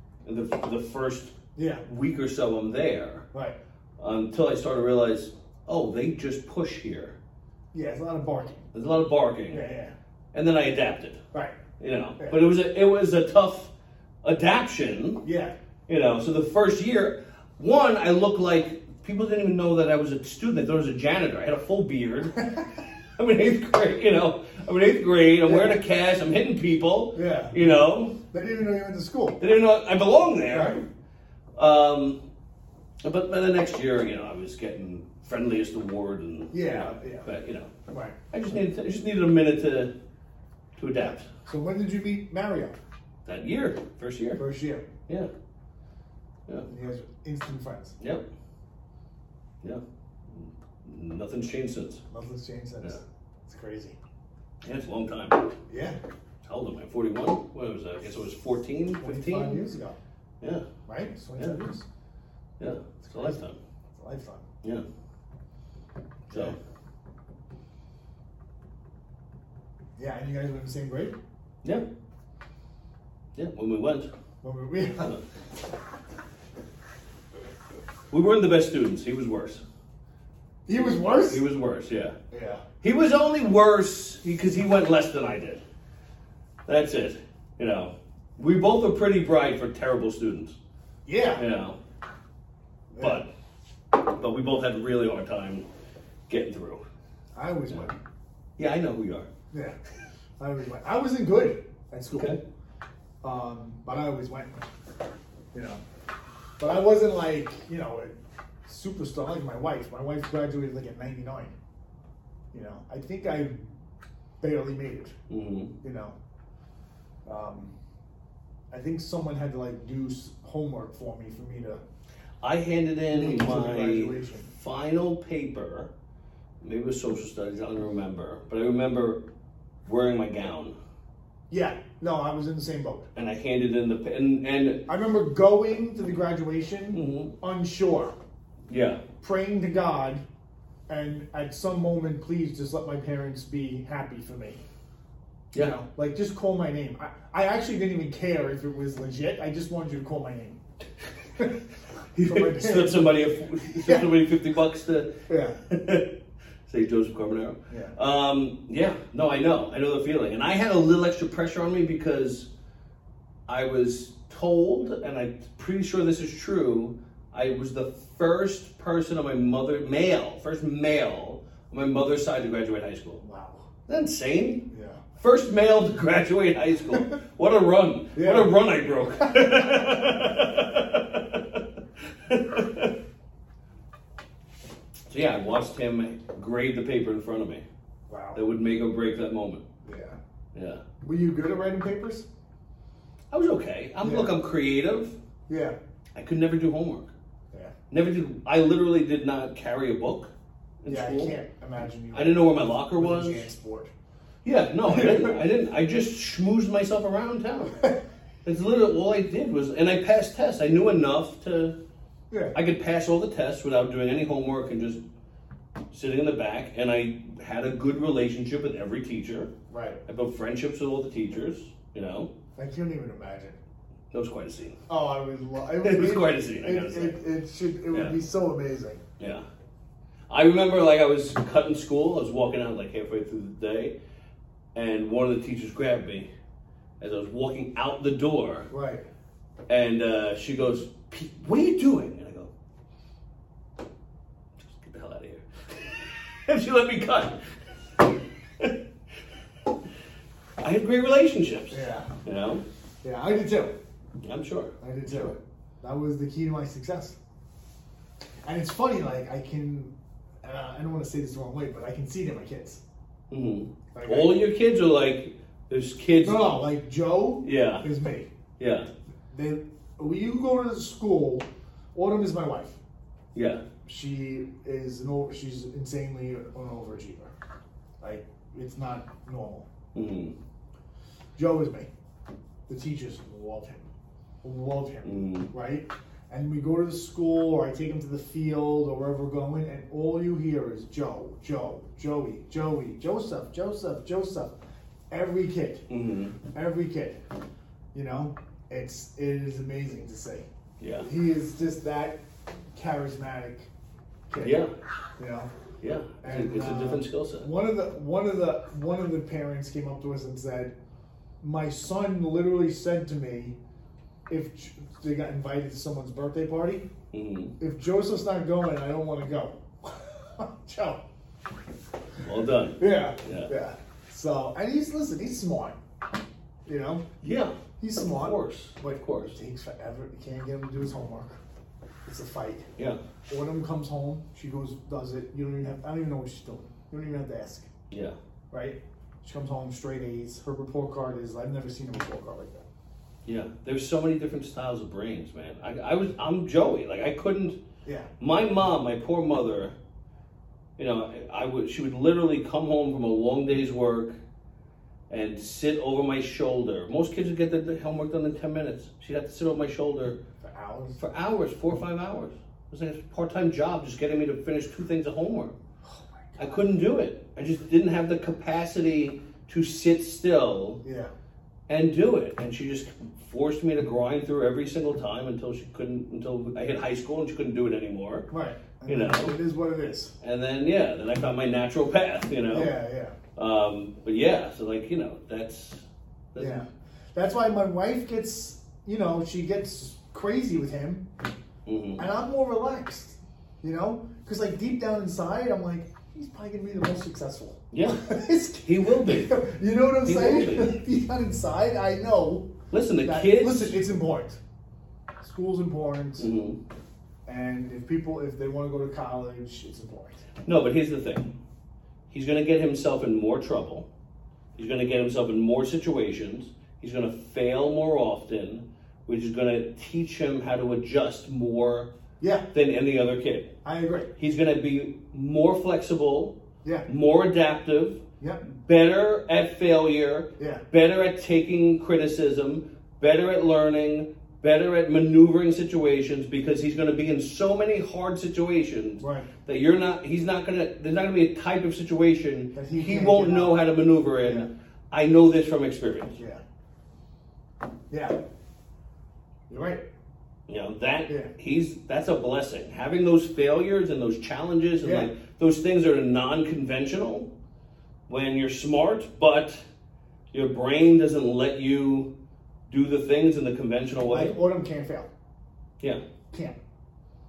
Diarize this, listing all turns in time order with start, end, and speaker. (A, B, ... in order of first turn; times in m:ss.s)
0:00.2-0:03.2 A
0:01.6-0:01.8 B
0:04.0-0:07.2 A
0:07.7-0:08.7 B
0:08.7-0:09.6 A
0:09.5-0:09.9 B
0:10.3-0:11.2 A
0:11.3-0:11.6 B
0:11.8-0:13.7 A
0:14.2-0:15.2 A
0:15.2-0:15.5 B
0:15.9-0:22.5 A
0:23.2-0:28.2 A
0:25.4-0:25.8 B
0:27.1-0:27.7 B
0:28.2-0:29.4 B
0:29.4-0:30.8 A
0:30.5-0:30.8 B
0:31.6-0:32.2 A
0:33.0-0:37.7 A
0:36.5-0:37.3 B
0:37.9-0:38.2 B
0:38.3-0:39.9 A
0:40.8-0:41.3 A
0:41.4-0:42.8 B
0:43.2-0:44.4 A
0:44.4-0:44.8 B
0:46.7-0:48.0 B
0:48.0-0:48.3 A
0:49.6-0:52.0 A
0:52.1-0:54.0 B
0:54.6-0:55.5 A
0:55.7-0:56.0 B
0:56.4-0:59.6 A
0:59.0-1:00.0 B
1:00.4-1:00.7 A
1:00.8-1:01.8 B
1:02.6-1:03.6 A
1:03.0-1:03.4 B
1:03.9-1:04.4 B
1:06.3-1:06.6 A
1:06.3-1:06.6 B
1:10.0-1:11.2 B
1:13.4-1:14.1 A
1:14.4-1:15.1 B
1:18.1-1:19.6 A
1:20.6-1:21.4 B
1:21.3-1:22.2 A
1:22.3-1:22.6 B
1:22.8-1:25.6 A
1:26.6-1:30.6 A
1:31.0-1:31.4 B
1:31.4-1:31.8 A
1:32.9-1:33.2 B
1:33.0-1:33.3 A
1:33.9-1:35.6 A
1:36.3-1:36.8 A
1:37.3-1:38.0 B
1:38.6-1:39.3 A
1:39.5-1:39.8 B
1:40.4-1:42.4 B
1:42.1-1:42.4 A
1:43.2-1:44.6 B
1:45.5-1:45.8 B
1:46.6-1:51.5 B
1:52.5-1:53.7 B
1:54.4-1:55.1 B
1:55.3-1:55.7 A
1:55.8-1:56.2 B
1:57.2-1:57.7 B
1:58.7-2:01.8 B
2:02.4-2:05.9 A
2:03.1-2:04.5 B
2:06.6-2:09.2 A
2:09.8-2:10.8 A
2:11.5-2:13.1 B
2:13.1-2:14.8 A
2:14.9-2:18.2 B
2:16.9-2:17.3 A
2:18.7-2:19.0 A
2:19.2-2:20.2 B
2:20.9-2:24.6 B
2:25.5-2:25.8 A
2:25.5-2:30.6 B
2:32.1-2:33.2 B
2:32.2-2:36.1 A
2:33.8-2:34.1 B
2:35.3-2:35.6 B
2:36.7-2:42.5 A
2:37.7-2:37.9 B
2:43.5-2:53.2 A
2:53.2-2:53.6 B
2:53.9-3:01.6 A
2:54.7-2:55.0 B
2:58.1-2:58.5 B
2:59.2-3:00.6 B
3:02.2-3:02.9 A
3:05.1-3:07.6 A
3:08.1-3:08.4 B
3:08.3-3:09.6 A
3:09.8-3:10.2 B
3:10.5-3:10.8 A
3:11.0-3:12.3 B
3:13.3-3:15.2 A
3:14.0-3:14.3 B
3:15.5-3:15.8 B
3:16.1-3:17.1 A
3:17.9-3:21.4 A
3:20.9-3:23.9 B
3:22.1-3:23.5 A
3:24.4-3:27.8 A
3:24.8-3:25.4 B
3:28.4-3:31.8 A
3:32.5-3:35.0 A
3:35.9-3:39.5 A
3:39.7-3:40.0 B
3:40.0-3:42.3 A
3:42.6-3:43.6 B
3:44.1-3:44.8 A
3:44.9-3:49.0 B
3:45.8-3:47.2 A
3:49.2-3:49.4 A
3:50.3-3:53.9 A
3:54.7-3:56.3 A
3:57.0-3:58.7 A
3:58.7-3:59.0 B
3:59.7-4:02.5 A
4:04.6-4:07.4 A
4:10.6-4:12.6 A
4:11.7-4:12.1 B
4:13.0-4:13.7 B
4:14.2-4:15.4 A
4:14.8-4:17.2 B
4:18.4-4:22.8 B
4:23.3-4:26.6 A
4:23.9-4:24.4 B
4:26.2-4:28.3 B
4:27.4-4:27.9 A
4:28.6-4:28.9 A
4:29.3-4:32.8 B
4:33.3-4:33.6 A
4:33.8-4:37.3 B
4:38.0-4:39.7 B
4:39.9-4:40.3 A
4:41.4-4:41.9 B
4:42.7-4:43.9 B
4:44.4-4:54.6 B
4:45.0-4:45.5 A
4:55.1-4:55.8 B
4:55.9-4:56.4 A
4:56.4-4:57.2 B
4:57.9-5:00.5 B
5:00.8-5:01.1 A
5:01.0-5:02.2 B
5:02.7-5:03.7 B
5:04.3-5:04.6 B
5:04.4-5:04.7 A
5:05.2-5:05.5 B
5:05.8-5:07.5 A
5:06.2-5:10.7 B
5:11.4-5:13.6 B
5:14.3-5:16.9 B
5:17.1-5:17.5 A
5:17.6-5:21.0 B
5:22.2-5:23.5 A
5:22.8-5:25.8 B
5:26.6-5:27.0 B
5:27.2-5:27.6 A
5:27.8-5:31.4 B
5:28.1-5:29.4 A
5:32.0-5:32.7 B
5:33.3-5:37.7 B
5:37.9-5:38.2 A
5:38.5-5:42.6 B
5:43.2-5:47.6 A
5:47.8-5:48.1 B
5:48.2-5:49.8 A
5:50.8-5:54.2 A
5:55.1-6:00.2 A
6:00.4-6:01.0 B
6:01.0-6:05.6 A
6:05.8-6:06.6 B
6:06.4-6:10.8 A
6:10.8-6:11.1 B
6:11.7-6:18.3 A
6:18.3-6:20.1 B
6:18.9-6:19.4 A
6:20.2-6:22.8 A
6:22.5-6:23.2 B
6:23.4-6:26.6 A
6:26.4-6:31.0 B
6:31.6-6:32.0 A
6:32.0-6:42.5 B
6:37.7-6:39.4 A
6:40.0-6:40.8 A
6:42.7-6:43.8 A
6:43.0-6:44.4 B
6:45.2-6:46.3 B
6:46.2-6:46.6 A
6:47.2-6:50.2 B
6:50.4-6:51.3 A
6:52.1-6:53.9 A
6:54.6-7:01.9 A
7:02.2-7:02.5 B
7:02.5-7:03.5 A
7:03.6-7:04.1 B
7:04.2-7:26.2 A
7:10.4-7:10.6 B
7:19.0-7:19.3 B
7:22.5-7:23.6 B
7:24.2-7:24.5 B
7:26.2-7:26.4 B
7:27.9-7:28.2 B
7:29.5-7:29.8 B
7:30.5-7:37.3 A
7:34.8-7:35.1 B
7:38.1-7:39.6 A
7:40.3-7:42.1 A
7:42.7-7:44.4 A
7:44.0-7:45.1 B
7:46.3-7:46.6 B